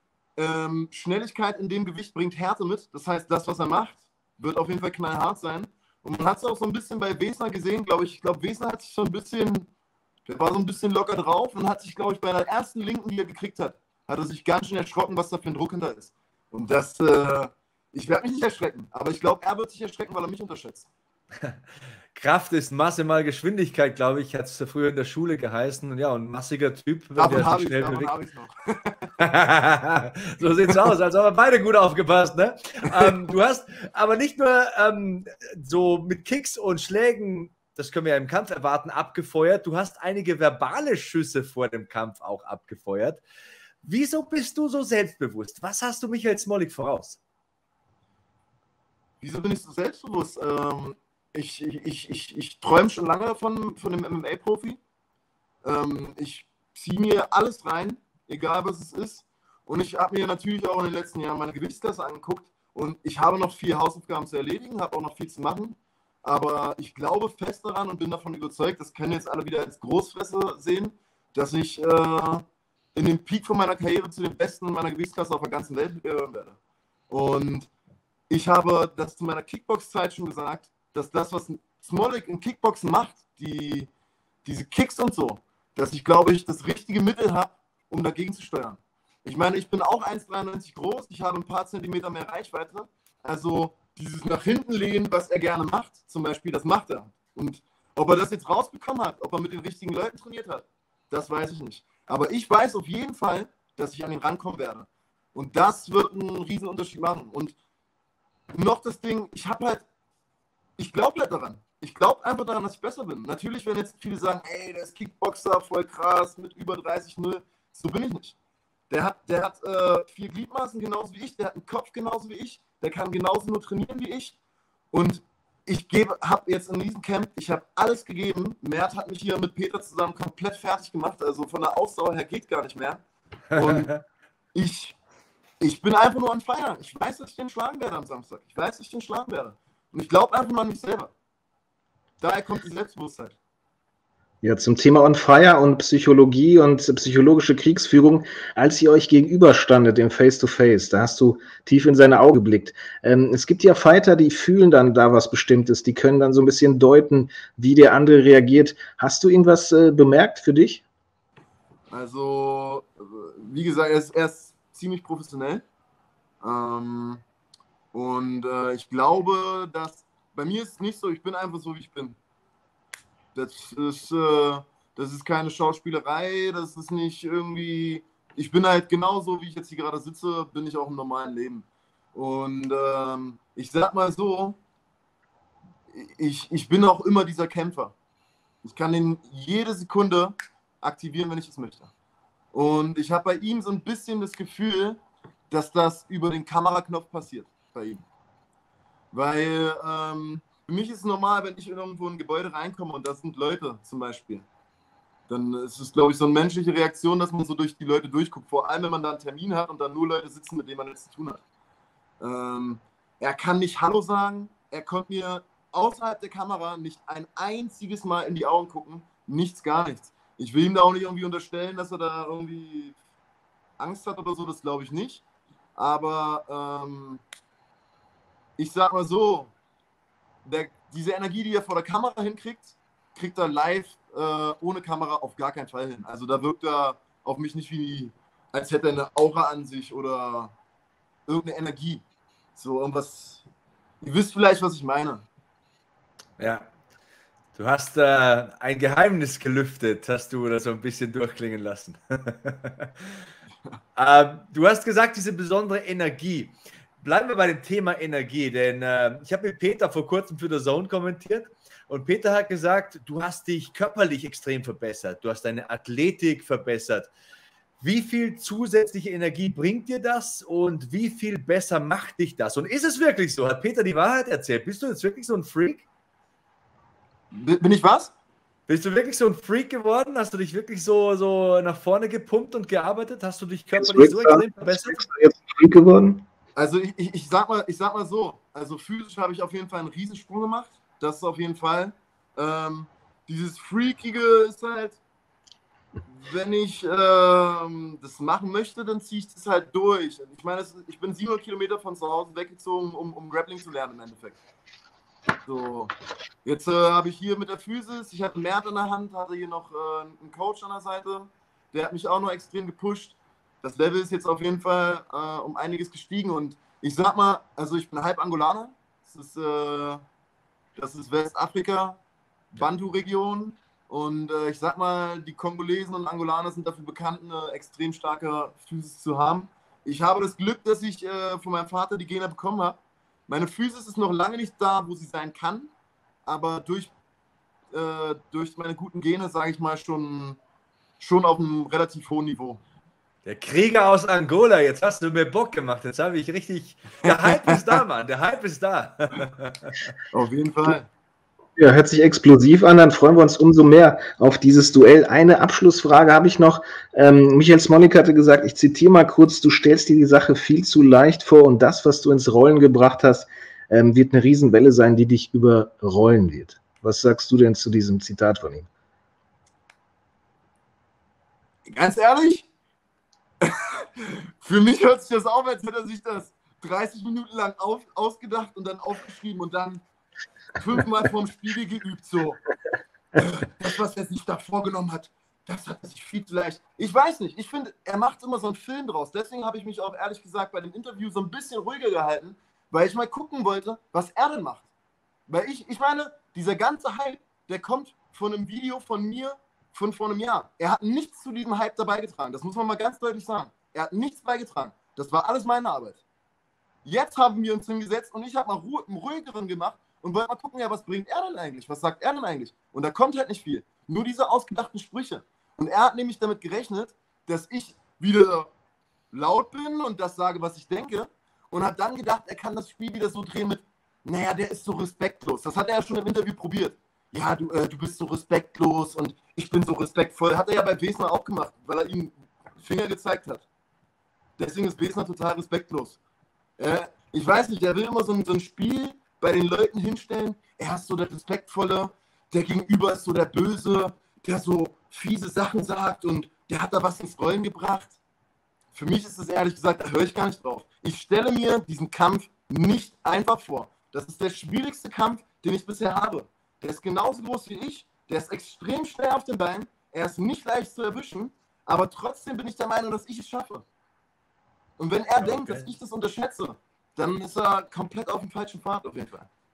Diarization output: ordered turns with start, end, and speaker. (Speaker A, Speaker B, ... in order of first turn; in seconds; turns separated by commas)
Speaker A: 0.4-9.7, Speaker A: 10.3-20.9, Speaker B: 22.1-28.1, Speaker A: 27.2-29.1, Speaker B: 29.2-43.2, Speaker B: 43.8-47.2, Speaker A: 49.2-54.8, Speaker A: 55.6-76.6, Speaker A: 77.1-77.7, Speaker A: 78.3-83.9, Speaker A: 84.5-107.5, Speaker A: 108.5-109.8, Speaker A: 110.8-118.3, Speaker A: 118.9-124.4, Speaker A: 124.9-133.0, Speaker B: 133.5-134.0, Speaker A: 133.6-133.9, Speaker A: 134.6-134.9, Speaker A: 135.6-141.1, Speaker A: 142.2-143.4, Speaker C: 144.4-160.8, Speaker A: 161.9-165.7, Speaker A: 166.4-167.2, Speaker A: 167.9-172.2, Speaker A: 173.3-184.6, Speaker A: 185.9-187.9, Speaker A: 188.6-191.9, Speaker A: 192.5-198.0, Speaker A: 199.1-204.5, Speaker A: 205.3-211.4, Speaker A: 212.2-222.9, Speaker A: 223.8-225.2, Speaker A: 225.8-227.2, Speaker A: 228.6-229.5, Speaker A: 230.4-240.5, Speaker A: 241.3-242.0, Speaker A: 242.6-243.4, Speaker A: 244.0-245.3, Speaker B: 246.4-246.7, Speaker B: 247.6-252.9, Speaker B: 254.0-267.1, Speaker B: 267.8-275.9, Speaker A: 277.3-278.1, Speaker B: 278.7-285.1, Speaker C: 283.8-286.2, Speaker A: 286.6-295.0, Speaker A: 296.1-304.4, Speaker A: 305.5-305.9, Speaker A: 306.4-320.0, Speaker A: 320.8-322.0, Speaker A: 322.5-335.7, Speaker A: 336.3-336.9, Speaker A: 337.7-340.4, Speaker A: 341.0-342.6, Speaker B: 343.2-349.9, Speaker A: 347.1-347.7, Speaker A: 350.1-350.9, Speaker C: 351.6-368.7, Speaker A: 371.7-372.5, Speaker A: 373.4-379.8, Speaker A: 380.6-382.4, Speaker A: 383.2-394.7, Speaker A: 395.3-406.0, Speaker A: 406.9-418.5, Speaker A: 419.1-433.5, Speaker A: 434.4-436.0, Speaker A: 436.6-448.0, Speaker A: 448.7-463.6, Speaker A: 464.8-469.3, Speaker B: 465.2-465.7